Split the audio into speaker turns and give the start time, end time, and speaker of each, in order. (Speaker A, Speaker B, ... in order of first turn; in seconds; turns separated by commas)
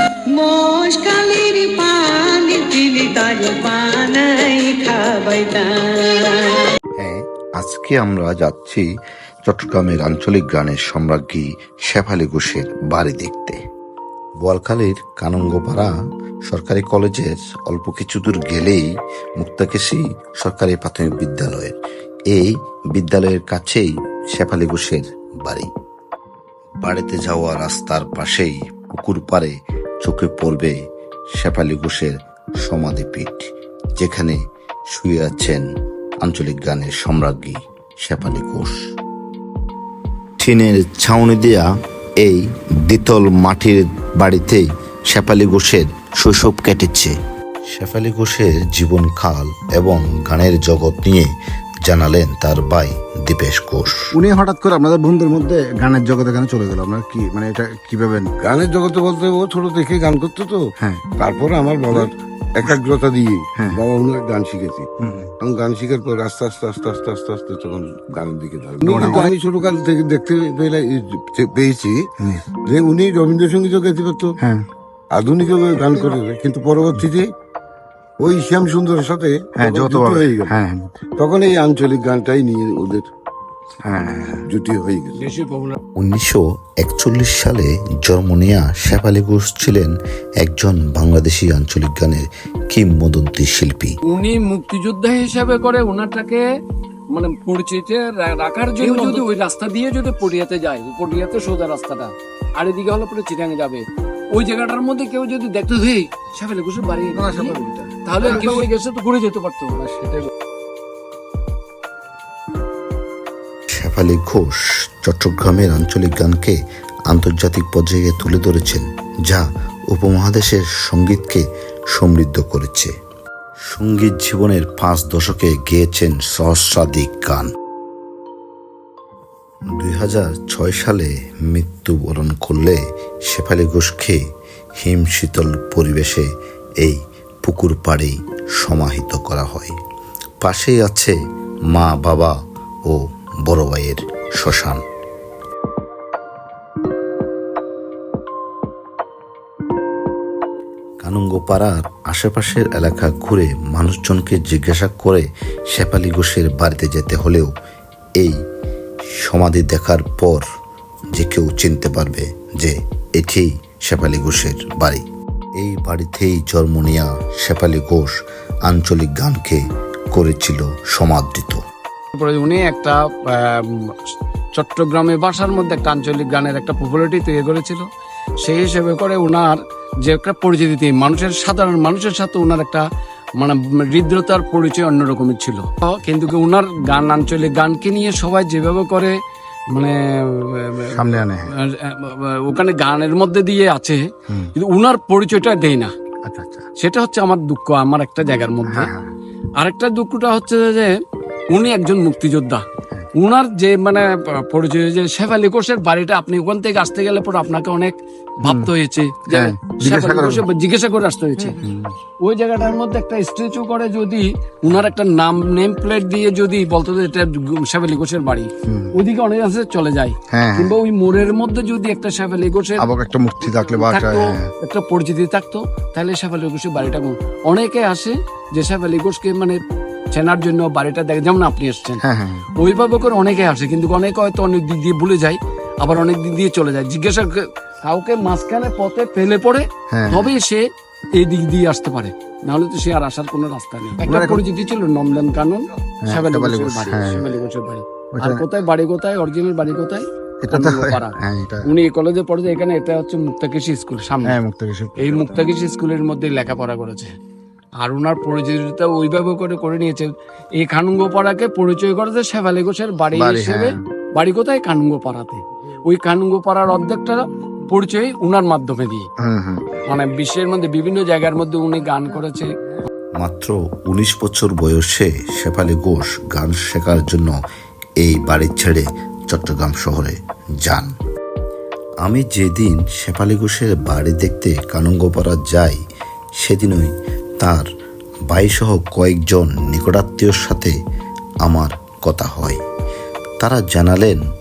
Speaker A: 0.3-6.7, Speaker B: 7.0-8.8, Speaker B: 9.4-13.6, Speaker B: 14.4-15.9, Speaker B: 16.5-21.8, Speaker B: 22.3-25.7, Speaker B: 26.8-30.8, Speaker B: 31.4-34.4, Speaker B: 34.9-35.6, Speaker B: 36.2-38.8, Speaker B: 40.4-41.7, Speaker B: 42.2-47.1, Speaker B: 47.7-51.3, Speaker B: 51.9-54.0, Speaker C: 54.1-58.3, Speaker D: 58.4-60.6, Speaker D: 61.2-74.4, Speaker C: 65.0-65.3, Speaker E: 68.8-69.3, Speaker C: 68.9-69.2, Speaker D: 75.1-77.3, Speaker D: 78.2-80.5, Speaker C: 79.6-80.9, Speaker D: 81.2-83.1, Speaker C: 83.8-84.5, Speaker D: 84.5-85.2, Speaker E: 85.2-85.8, Speaker B: 86.0-94.0, Speaker E: 94.0-96.4, Speaker E: 97.1-110.3, Speaker C: 107.3-108.3, Speaker B: 113.7-122.9, Speaker B: 123.7-127.5, Speaker B: 129.8-134.2, Speaker B: 134.8-136.3, Speaker B: 136.8-139.7, Speaker B: 140.4-141.2, Speaker B: 141.7-142.3, Speaker B: 142.9-144.8, Speaker B: 151.0-157.5, Speaker B: 159.2-160.4, Speaker B: 161.1-165.1, Speaker B: 165.6-168.1, Speaker B: 168.7-171.6, Speaker E: 172.1-173.9, Speaker E: 174.5-177.9, Speaker E: 178.4-182.8, Speaker E: 183.4-189.2, Speaker E: 189.7-194.0, Speaker C: 190.9-191.5, Speaker E: 194.6-195.9, Speaker C: 196.3-196.7, Speaker E: 196.8-198.9, Speaker C: 198.7-199.1, Speaker E: 199.6-200.9, Speaker E: 201.5-202.6, Speaker E: 203.2-211.6, Speaker C: 209.3-210.4, Speaker C: 211.6-211.9, Speaker E: 212.2-222.9, Speaker C: 218.7-218.9, Speaker C: 220.3-220.8, Speaker C: 222.8-224.5, Speaker E: 223.5-229.6, Speaker E: 230.1-232.0, Speaker C: 232.0-232.4, Speaker E: 232.6-254.4, Speaker C: 239.9-240.3, Speaker C: 244.1-244.4, Speaker C: 246.1-247.3, Speaker C: 248.2-248.4, Speaker C: 250.4-251.7, Speaker C: 254.3-255.2, Speaker E: 255.0-257.1, Speaker E: 257.8-269.1, Speaker C: 263.1-263.7, Speaker C: 269.2-269.8, Speaker E: 269.9-272.5, Speaker B: 273.2-277.4, Speaker B: 278.0-280.9, Speaker B: 282.0-285.8, Speaker B: 286.4-287.7, Speaker B: 288.3-290.8, Speaker B: 291.4-292.6, Speaker B: 293.4-294.2